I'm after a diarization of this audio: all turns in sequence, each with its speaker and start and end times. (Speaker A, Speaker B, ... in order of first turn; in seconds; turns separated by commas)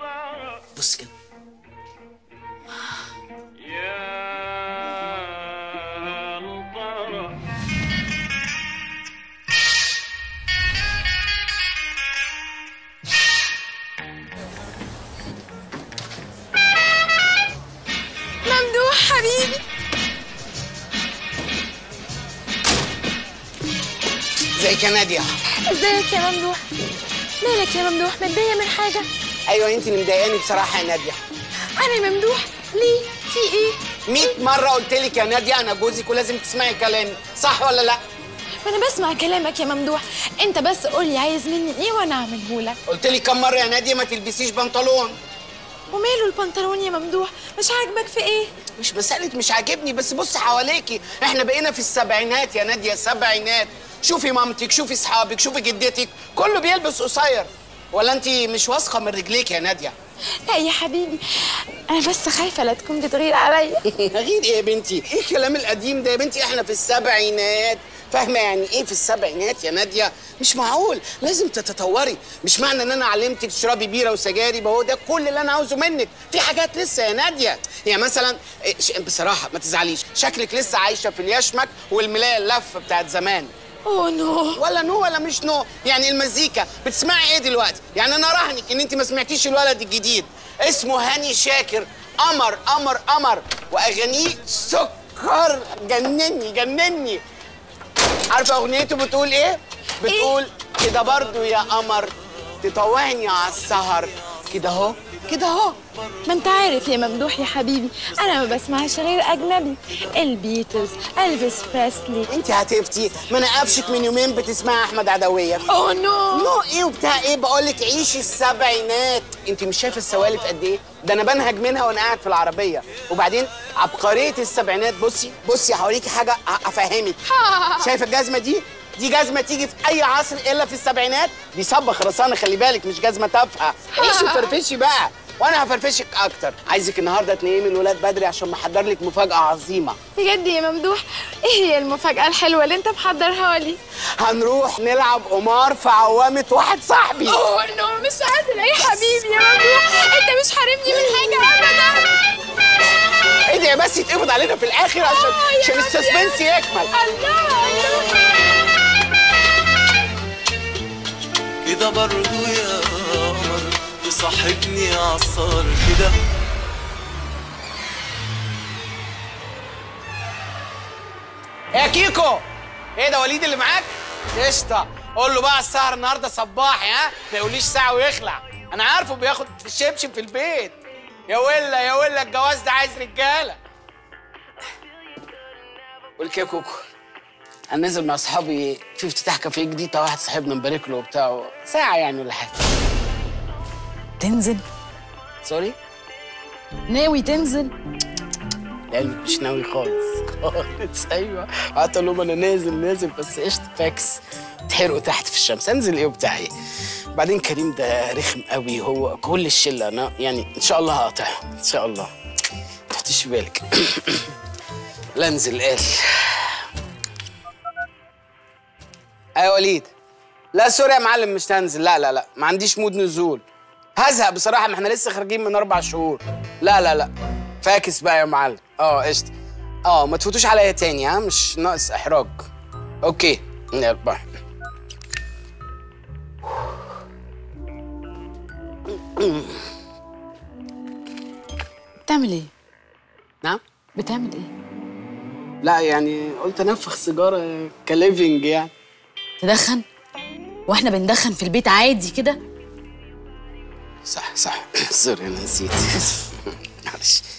Speaker A: 0.7-1.1, Speaker B: 18.4-19.6, Speaker A: 24.6-25.3, Speaker B: 25.6-26.6, Speaker B: 27.4-29.1, Speaker A: 29.5-31.2, Speaker B: 31.8-34.4, Speaker A: 34.1-38.0, Speaker B: 38.6-42.8, Speaker A: 42.9-45.1, Speaker B: 45.9-48.5, Speaker A: 48.7-59.9, Speaker B: 60.5-61.1, Speaker B: 61.9-63.7, Speaker A: 64.0-83.5, Speaker B: 83.8-84.6, Speaker A: 84.5-97.2, Speaker A: 98.3-105.0, Speaker B: 105.3-105.7, Speaker B: 106.2-112.2, Speaker A: 112.2-115.7, Speaker B: 115.7-116.5, Speaker A: 116.3-127.2, Speaker B: 127.3-127.9, Speaker A: 127.8-140.0, Speaker B: 133.9-134.5, Speaker B: 140.2-143.8, Speaker A: 144.2-147.4, Speaker B: 147.3-152.1, Speaker A: 153.5-156.9, Speaker B: 155.0-156.4, Speaker B: 156.9-158.2, Speaker C: 161.7-166.1, Speaker A: 171.7-172.4, Speaker A: 173.0-183.6, Speaker A: 186.2-186.8, Speaker A: 187.7-192.6, Speaker B: 194.2-194.6, Speaker A: 195.4-195.8, Speaker B: 196.9-197.7, Speaker A: 198.9-206.5, Speaker A: 207.1-212.1, Speaker A: 212.9-214.2, Speaker A: 215.2-216.0, Speaker A: 219.4-219.9, Speaker A: 220.5-223.4, Speaker A: 224.0-227.1, Speaker A: 227.6-229.3, Speaker A: 229.8-232.4, Speaker A: 233.0-234.3, Speaker A: 238.9-239.7, Speaker B: 242.1-242.5, Speaker B: 243.9-244.5, Speaker A: 245.6-248.7, Speaker B: 249.4-249.8, Speaker B: 250.7-252.4, Speaker A: 254.1-257.2